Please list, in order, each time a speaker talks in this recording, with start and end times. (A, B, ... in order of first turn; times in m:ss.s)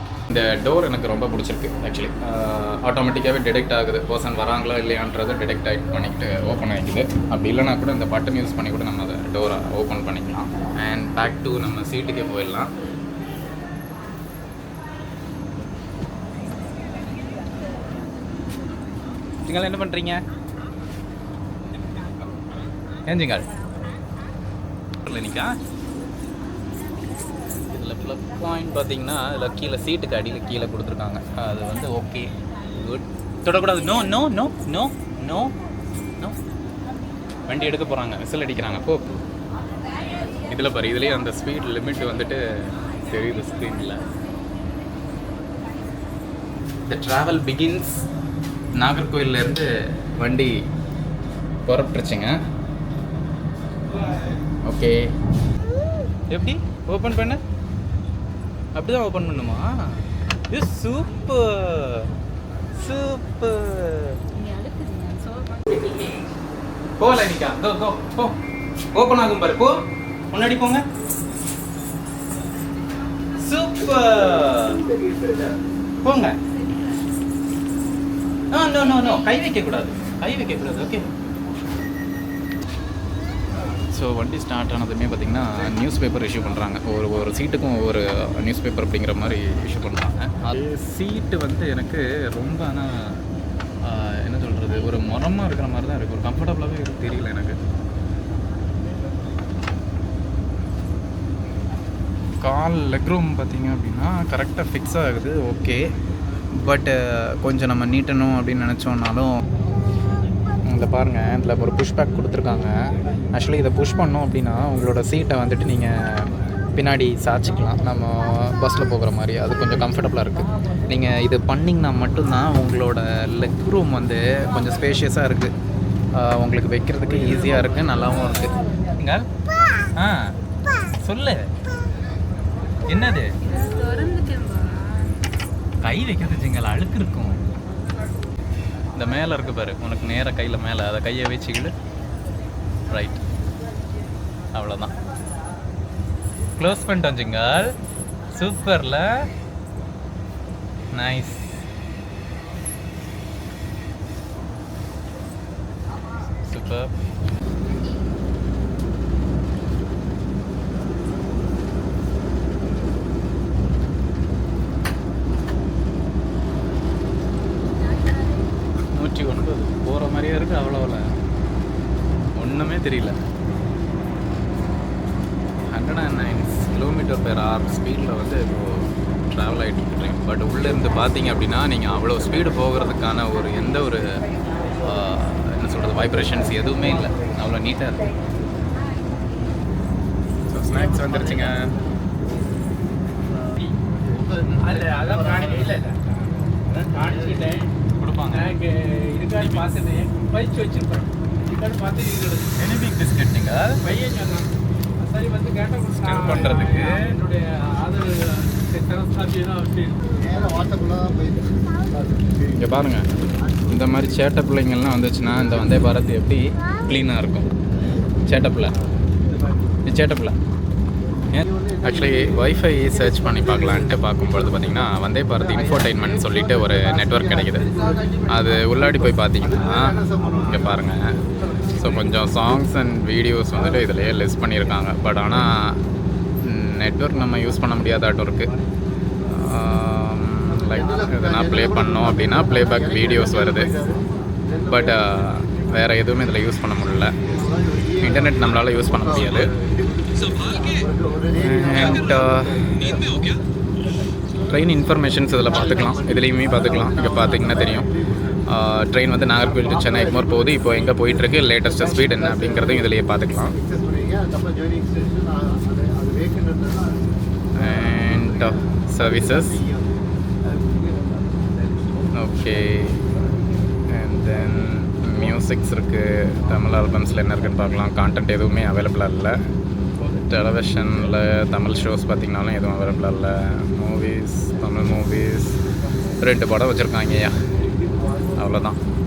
0:00.3-0:12.7 A
0:19.4-0:20.2 A
0:23.1-0:23.5 A
0:25.0-0:25.5 A
0:27.7-0:35.5 A
0:37.5-0:39.2 A
0:40.5-0:42.4 A
0:43.1-0:44.0 A
0:46.8-0:48.0 A
0:48.8-0:49.7 A
0:50.2-0:50.5 A
0:51.6-0:52.4 A
0:54.6-0:54.9 A
0:56.3-0:57.4 A
0:58.8-0:59.6 A
1:00.5-1:02.1 A
1:02.8-1:04.2 A
1:04.3-1:06.2 B
1:07.0-1:08.3 A
1:08.9-1:09.8 A
1:10.3-1:10.8 A
1:13.4-1:14.8 A
1:16.0-1:16.4 A
1:18.5-1:21.1 A
1:23.9-1:33.2 A
1:33.8-1:37.6 A
1:42.4-1:45.8 A
1:46.6-1:49.3 A
1:50.7-1:52.7 A
1:53.3-2:05.5 A
2:06.2-2:09.2 A
2:10.0-2:10.3 A
2:11.0-2:11.4 A
2:12.9-2:13.3 A
2:13.4-2:15.2 B
2:15.8-2:17.4 A
2:18.9-2:21.7 A
2:22.9-2:23.2 A
2:24.5-2:24.9 A
2:26.6-2:27.7 A
2:28.3-2:29.0 A
2:30.9-2:31.6 A
2:36.5-2:36.9 A
2:47.6-2:48.5 B
2:48.9-2:51.0 A
2:52.4-2:53.2 A
2:55.7-3:04.0 A
3:04.8-3:08.0 A
3:10.5-3:11.7 A
3:14.4-3:14.8 A
3:14.6-3:17.7 C
3:18.0-3:18.6 A
3:18.3-3:22.5 C
3:19.3-3:19.7 A
3:22.6-3:23.8 A
3:23.8-3:30.0 C
3:25.9-3:27.1 A
3:32.5-3:33.0 A
3:33.7-3:37.5 A
3:38.3-3:38.7 A
3:39.8-3:40.3 A
3:41.3-3:47.7 A
3:48.3-3:51.0 A
3:51.8-3:55.5 A
3:56.4-3:58.5 A
3:59.2-4:03.8 A
4:04.7-4:07.1 A
4:08.0-4:09.5 A
4:11.3-4:13.3 A
4:14.5-4:17.9 A
4:18.5-4:23.6 A
4:27.6-4:29.6 A
4:32.1-4:33.1 A
4:33.9-4:39.4 A
4:40.3-4:45.6 A
4:46.2-4:47.3 A
4:48.4-4:48.8 A